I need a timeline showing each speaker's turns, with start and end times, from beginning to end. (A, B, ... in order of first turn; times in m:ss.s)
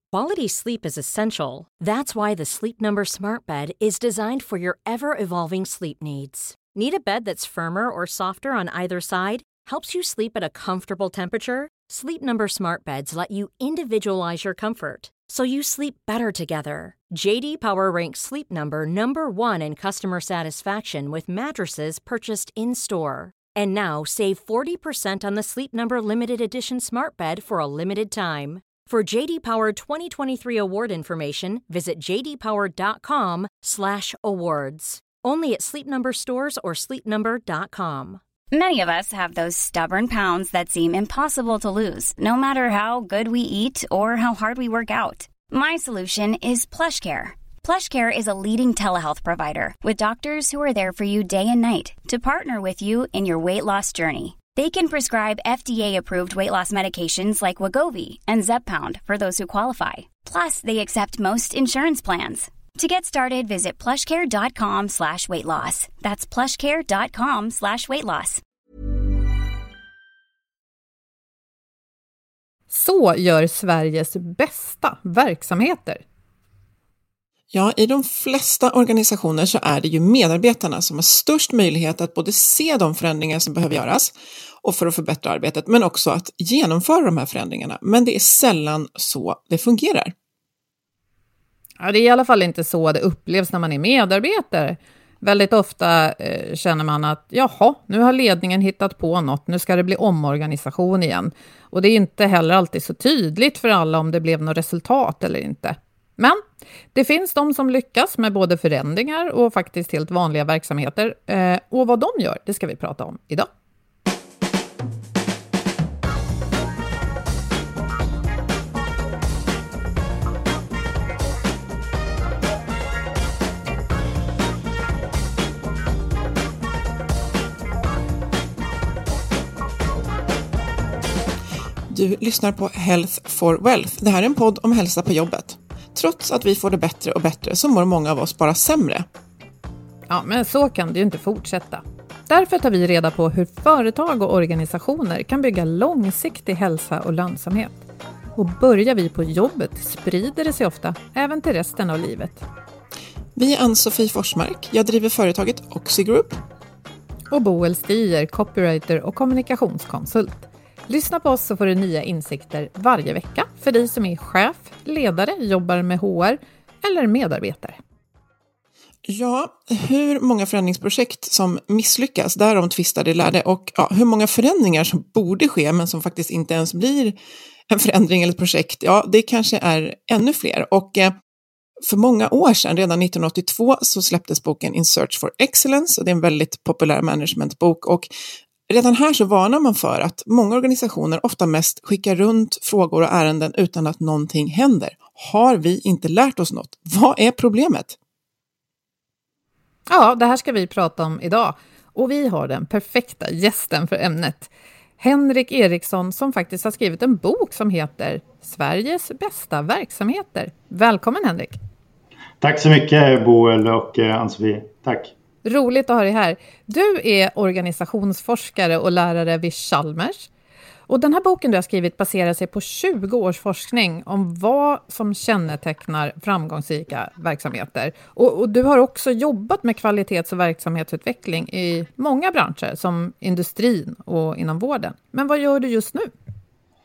0:00.1-0:38.2 A
0:38.5-1:08.4 B
1:12.7-1:16.0 C
1:17.5-1:30.1 D
1:31.8-1:46.4 C
1:46.9-1:53.5 C
2:11.9-2:19.0 D
2:20.1-2:27.8 C
2:28.4-2:32.4 C
2:33.4-2:36.4 D
2:37.3-2:47.8 C
2:49.1-2:57.2 D
2:57.7-3:01.2 D
3:01.9-3:08.1 D
3:08.7-3:18.0 D
3:19.9-3:31.6 C
3:32.4-3:35.1 E
3:35.4-3:40.3 C
3:40.9-3:56.1 C